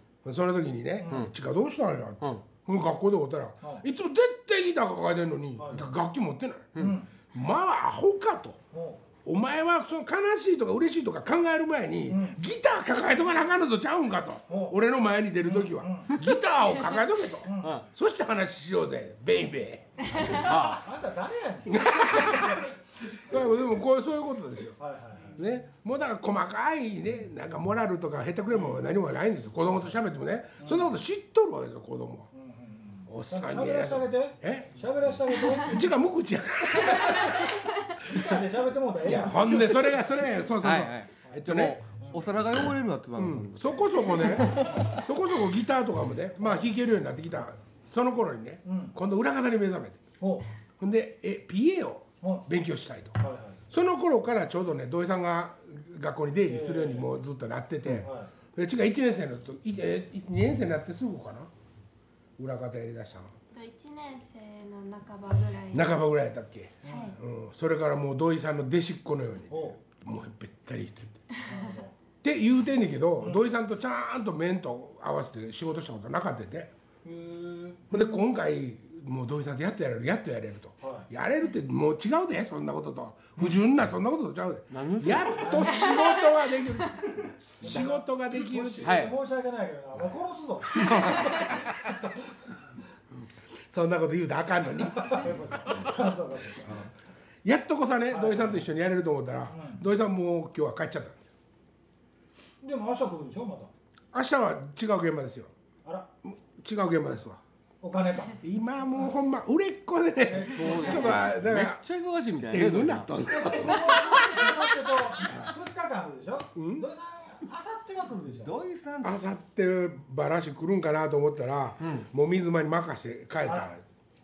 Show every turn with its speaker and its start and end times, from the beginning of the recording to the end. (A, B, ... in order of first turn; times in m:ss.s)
0:00.2-0:06.8 A
0:01.0-0:01.2 B
0:05.6-0:05.9 B
0:06.8-0:07.1 B
0:07.3-0:08.6 A
0:08.7-0:09.0 B
0:09.2-0:20.4 A
0:12.1-0:12.4 B
0:14.5-0:14.8 B
0:15.4-0:16.1 B
0:17.4-0:17.7 B
0:17.6-0:17.8 C
0:20.2-0:22.6 B
0:20.3-0:20.8 C
0:21.7-0:24.8 A
0:24.8-0:25.4 B
0:25.4-0:32.3 A
0:30.6-0:30.9 B
0:32.3-0:35.9 B
0:33.1-0:34.8 A
0:35.5-0:37.5 A
0:36.9-0:37.3 B
0:38.0-0:40.0 B
0:39.0-0:41.8 A
0:40.6-0:44.8 C
0:42.0-0:42.2 B
0:43.2-0:50.0 A
0:46.4-0:46.7 B
0:48.6-0:48.9 B
0:50.2-0:50.4 B
0:50.8-0:53.2 A
0:52.2-0:52.5 B
0:53.2-0:53.6 B
0:53.7-1:01.5 A
0:56.4-0:57.1 B
0:57.9-0:58.3 B
1:02.4-1:03.3 A
1:03.5-1:05.9 D
1:05.7-1:11.2 A
1:06.8-1:07.2 B
1:06.8-1:07.2 D
1:09.5-1:09.8 B
1:11.4-1:11.9 B
1:12.2-1:16.7 A
1:17.0-1:18.0 B
1:17.9-1:29.0 A
1:20.8-1:21.1 B
1:24.7-1:25.6 C
1:25.3-1:26.1 B
1:27.6-1:32.2 B
1:28.8-1:29.2 C
1:30.8-1:31.2 C
1:33.7-1:35.8 A
1:34.9-1:36.9 B
1:37.4-1:41.3 A
1:38.1-1:38.7 B
1:39.5-1:39.8 B
1:42.6-1:43.7 B
1:44.1-1:45.5 A
1:45.8-1:46.1 B
1:46.2-1:47.4 A
1:47.8-1:48.4 B
1:48.4-1:51.8 A
1:50.2-1:51.2 B
1:50.4-1:53.1 C
1:52.5-1:54.3 A
1:53.2-1:58.5 B
1:56.6-1:56.8 A
1:58.4-1:59.2 C
1:59.0-2:03.8 A
2:01.8-2:02.1 C
2:03.4-2:03.7 B